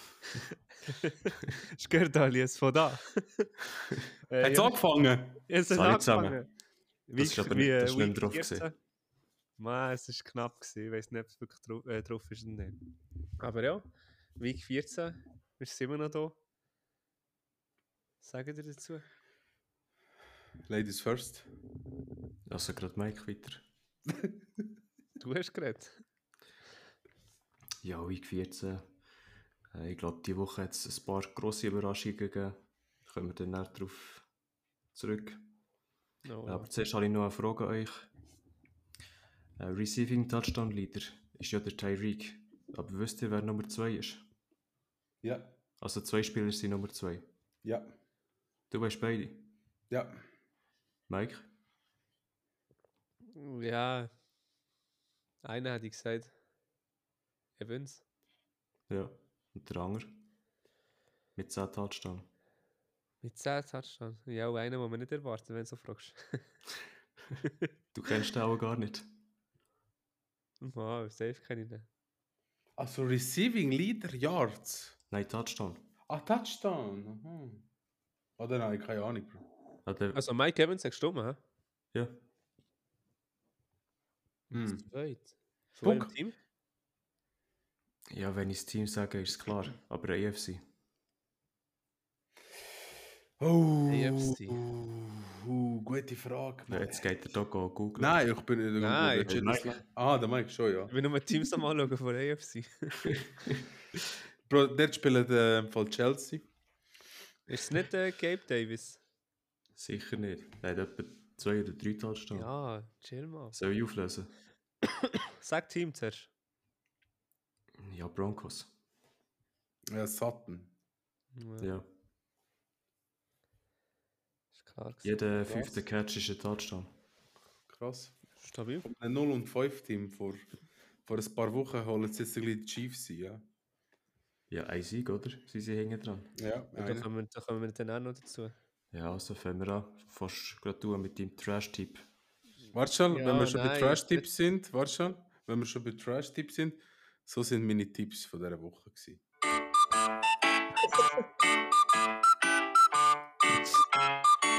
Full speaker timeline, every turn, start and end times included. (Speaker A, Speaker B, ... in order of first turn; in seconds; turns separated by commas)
Speaker A: 0.3-3.5, Speaker A: 4.3-4.8, Speaker B: 4.4-5.4, Speaker A: 5.5-6.5, Speaker C: 5.7-6.4, Speaker A: 7.1-8.7, Speaker C: 7.2-8.7, Speaker A: 9.6-12.8, Speaker A: 13.4-13.9, Speaker A: 14.4-16.4, Speaker A: 18.2-19.0, Speaker B: 20.7-21.5, Speaker C: 22.5-23.6, Speaker A: 25.2-25.9, Speaker C: 27.8-28.9, Speaker C: 29.7-34.2, Speaker C: 34.9-35.5, Speaker A: 36.2-36.7, Speaker C: 36.5-38.1, Speaker C: 39.6-44.3, Speaker B: 45.2-45.5, Speaker C: 45.8-47.3, Speaker B: 47.6-47.9, Speaker C: 48.7-49.5, Speaker B: 49.9-50.2, Speaker C: 51.1-51.5, Speaker A: 53.3-54.1, Speaker A: 55.4-56.3, Speaker A: 57.6-58.0, Speaker C: 58.9-60.2, Speaker C: 61.4-62.3, Speaker A: 63.2-66.4, Speaker C: 67.9-69.1, Speaker A: 70.6-71.9, Speaker B: 72.8-75.0, Speaker C: 75.1-75.8, Speaker B: 76.1-77.7, Speaker B: 78.4-79.4, Speaker C: 79.8-80.2, Speaker A: 80.1-81.4, Speaker A: 84.5-86.3, Speaker B: 84.5-84.8, Speaker B: 85.8-86.1, Speaker C: 88.1-90.6, Speaker B: 93.4-97.1, Speaker A: 93.9-94.6, Speaker C: 96.7-98.2, Speaker B: 98.0-100.9, Speaker A: 98.8-99.4, Speaker C: 99.3-99.8, Speaker A: 100.9-103.1, Speaker C: 103.1-103.6, Speaker B: 104.5-106.5, Speaker A: 107.5-109.0, Speaker C: 109.8-112.5, Speaker A: 112.3-113.6, Speaker C: 113.5-114.3, Speaker A: 115.4-116.3, Speaker C: 117.8-118.7, Speaker B: 119.9-120.7, Speaker A: 121.3-121.7, Speaker A: 124.6-125.1, Speaker C: 125.0-126.9, Speaker B: 125.4-125.8, Speaker B: 127.7-128.2, Speaker A: 128.4-128.9, Speaker B: 128.8-130.4, Speaker B: 131.0-133.4, Speaker C: 134.5-136.3, Speaker B: 136.3-137.1, Speaker A: 136.8-138.5, Speaker C: 138.9-142.1, Speaker B: 142.7-149.2, Speaker A: 143.1-144.2